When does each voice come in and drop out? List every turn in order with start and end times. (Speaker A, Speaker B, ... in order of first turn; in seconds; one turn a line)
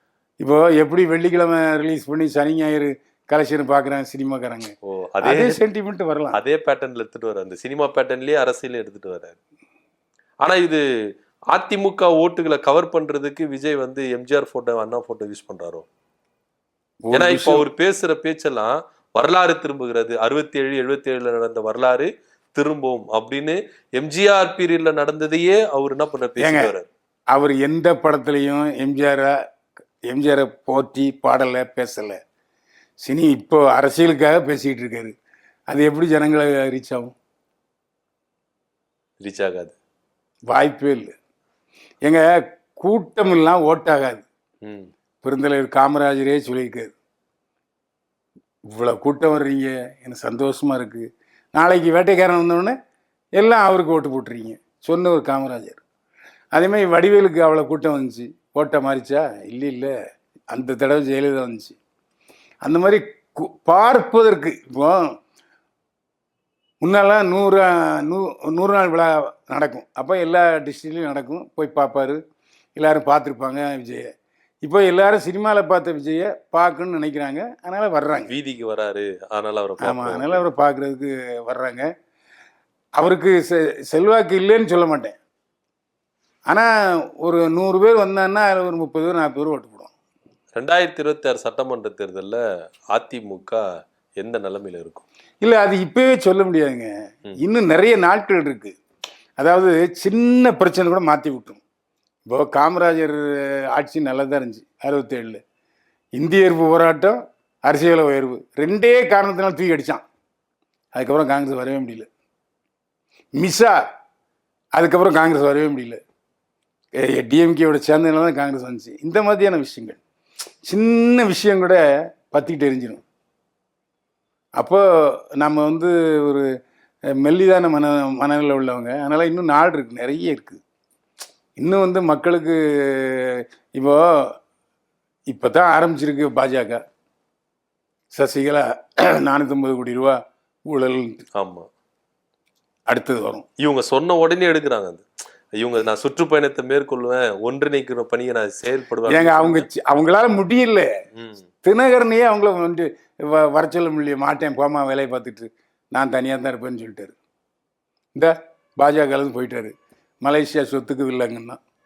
Speaker A: 0.4-6.4
Speaker B: 4.9-5.6
Speaker B: 6.3-9.4
Speaker B: 10.4-10.8
Speaker B: 11.5-15.9
Speaker A: 17.1-17.6
Speaker B: 17.1-26.9
Speaker A: 26.4-26.7
Speaker A: 27.3-29.4
Speaker A: 30.1-32.2
Speaker A: 33.0-35.1
Speaker A: 35.7-37.1
Speaker B: 39.2-39.7
Speaker A: 40.5-41.1
Speaker A: 42.0-44.2
Speaker B: 44.6-44.9
Speaker A: 45.2-46.9
Speaker A: 48.7-52.8
Speaker A: 53.4-55.8
Speaker A: 56.5-59.9
Speaker A: 60.5-61.8
Speaker A: 62.6-65.1
Speaker A: 66.8-72.2
Speaker A: 72.8-74.1
Speaker A: 74.6-78.3
Speaker B: 78.3-80.4
Speaker A: 79.8-81.9
Speaker A: 83.0-85.2
Speaker A: 87.2-89.9
Speaker B: 90.6-92.4
Speaker B: 92.9-93.6
Speaker B: 94.2-95.0
Speaker A: 95.4-98.8
Speaker A: 99.4-101.6
Speaker A: 102.3-105.4
Speaker A: 106.2-110.0
Speaker A: 110.9-112.1
Speaker A: 113.4-113.8
Speaker A: 114.8-116.0
Speaker A: 117.0-120.0
Speaker A: 120.6-123.0
Speaker A: 124.6-124.8
Speaker A: 125.4-126.5
Speaker A: 127.1-130.6
Speaker A: 131.6-134.3
Speaker A: 135.3-136.8
Speaker A: 138.1-141.2
Speaker B: 141.4-141.7
Speaker A: 142.9-143.4
Speaker B: 143.6-145.1
Speaker B: 145.6-149.7
Speaker A: 149.1-150.9
Speaker B: 151.2-151.4
Speaker A: 151.6-157.1
Speaker A: 158.1-161.6